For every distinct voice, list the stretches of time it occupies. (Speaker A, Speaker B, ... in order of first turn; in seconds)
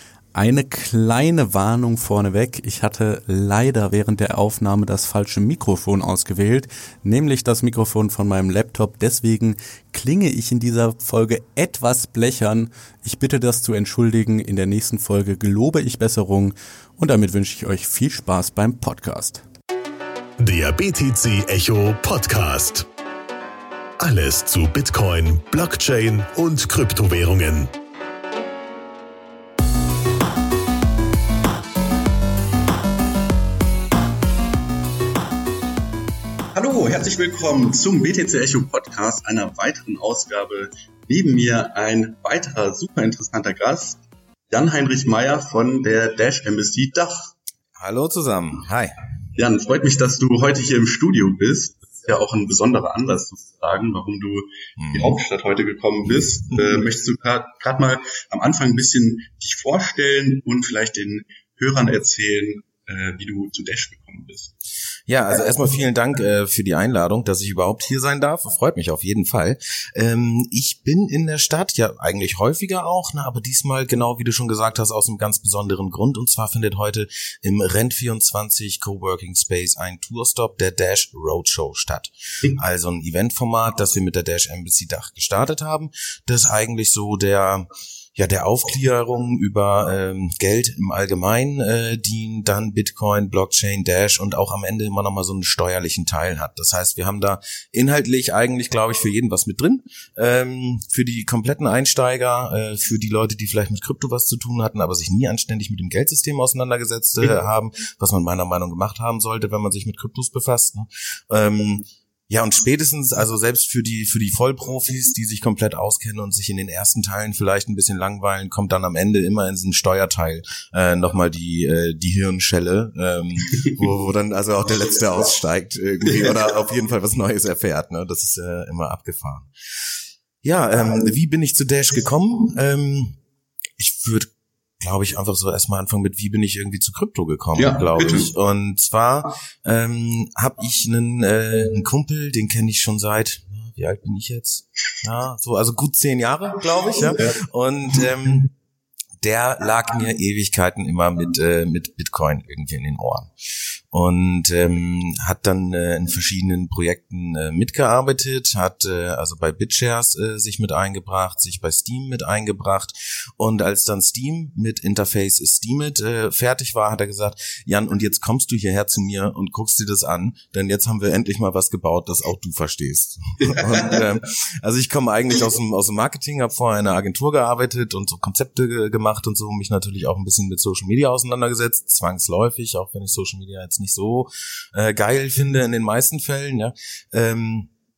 Speaker A: 0.3-19.4
Speaker B: 20.4-22.9, 24.0-27.7
Speaker C: 36.5-44.0, 44.5-47.3, 49.3-64.5, 126.0-126.4, 137.5-138.3, 147.1-147.4, 173.4-174.0
Speaker D: 47.8-49.0, 54.8-55.2, 65.1-133.2, 133.8-148.5, 149.2-153.3, 153.9-187.7